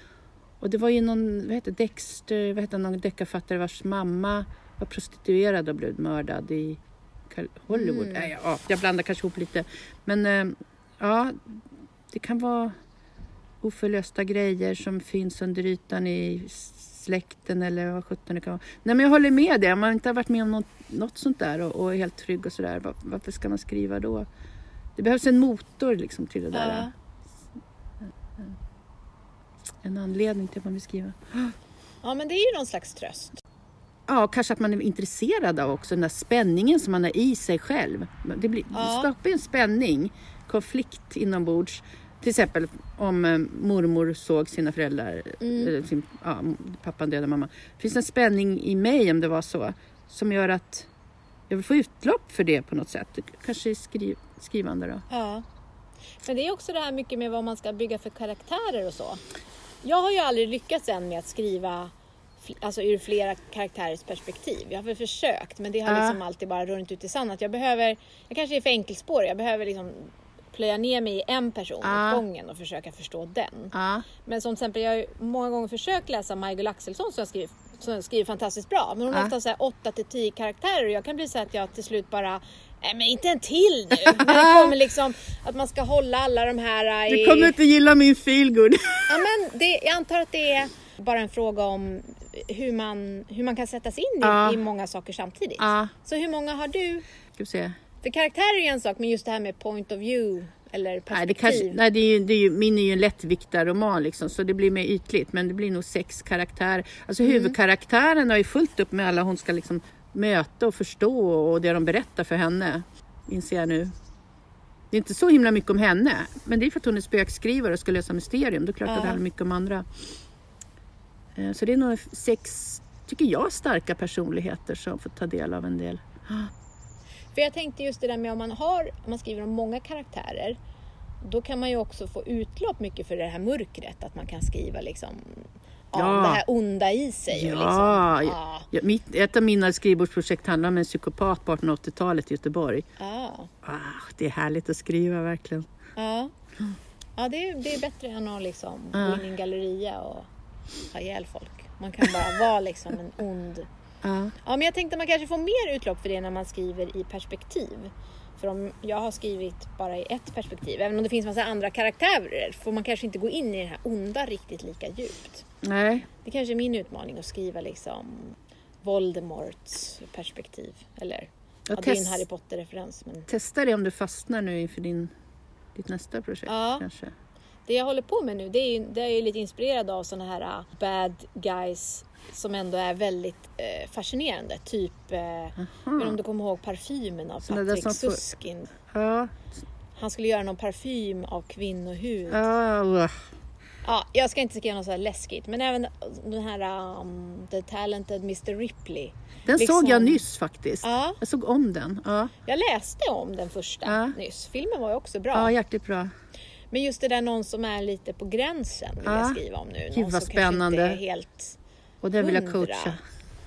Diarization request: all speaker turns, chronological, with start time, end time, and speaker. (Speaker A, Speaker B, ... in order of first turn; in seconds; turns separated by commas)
Speaker A: 0.6-12.8, Speaker B: 7.7-8.3, Speaker A: 13.6-24.3, Speaker A: 25.0-26.9, Speaker B: 26.5-26.9, Speaker A: 29.8-31.5, Speaker B: 32.0-33.4, Speaker A: 34.1-50.9, Speaker B: 38.7-39.1, Speaker B: 45.4-45.7, Speaker A: 51.5-55.0, Speaker B: 55.1-55.5, Speaker B: 56.2-59.2, Speaker B: 59.8-87.6, Speaker A: 65.9-66.2, Speaker A: 71.8-72.2, Speaker A: 73.7-74.0, Speaker A: 84.0-84.8, Speaker A: 87.1-89.3, Speaker B: 89.1-97.0, Speaker A: 94.2-94.6, Speaker A: 95.6-95.9, Speaker A: 97.4-97.8, Speaker B: 98.0-101.8, Speaker A: 101.1-113.9, Speaker B: 107.2-107.6, Speaker A: 114.9-119.9, Speaker B: 118.9-119.2, Speaker A: 121.3-126.5, Speaker B: 127.3-130.6, Speaker B: 131.2-138.7, Speaker A: 135.9-136.4, Speaker A: 137.3-142.9, Speaker B: 143.0-143.5, Speaker A: 143.6-145.7, Speaker B: 146.0-146.3, Speaker B: 147.2-150.3, Speaker A: 148.9-149.2, Speaker B: 150.9-153.7, Speaker A: 154.0-154.3, Speaker B: 154.4-165.5, Speaker A: 165.6-166.1, Speaker B: 166.2-173.3, Speaker A: 171.7-172.2, Speaker A: 173.3-175.1, Speaker A: 175.7-177.1, Speaker B: 176.5-176.8, Speaker B: 177.7-188.7, Speaker A: 185.6-186.2, Speaker A: 187.5-188.2, Speaker A: 188.9-189.5, Speaker B: 190.0-192.5, Speaker A: 192.3-193.2, Speaker B: 193.8-200.2, Speaker A: 199.5-202.3, Speaker B: 200.8-201.2, Speaker B: 202.4-205.5, Speaker A: 203.8-204.2, Speaker A: 205.3-206.1, Speaker B: 206.7-211.6, Speaker A: 209.1-209.4, Speaker A: 209.9-211.0, Speaker A: 212.0-213.0, Speaker B: 212.2-213.0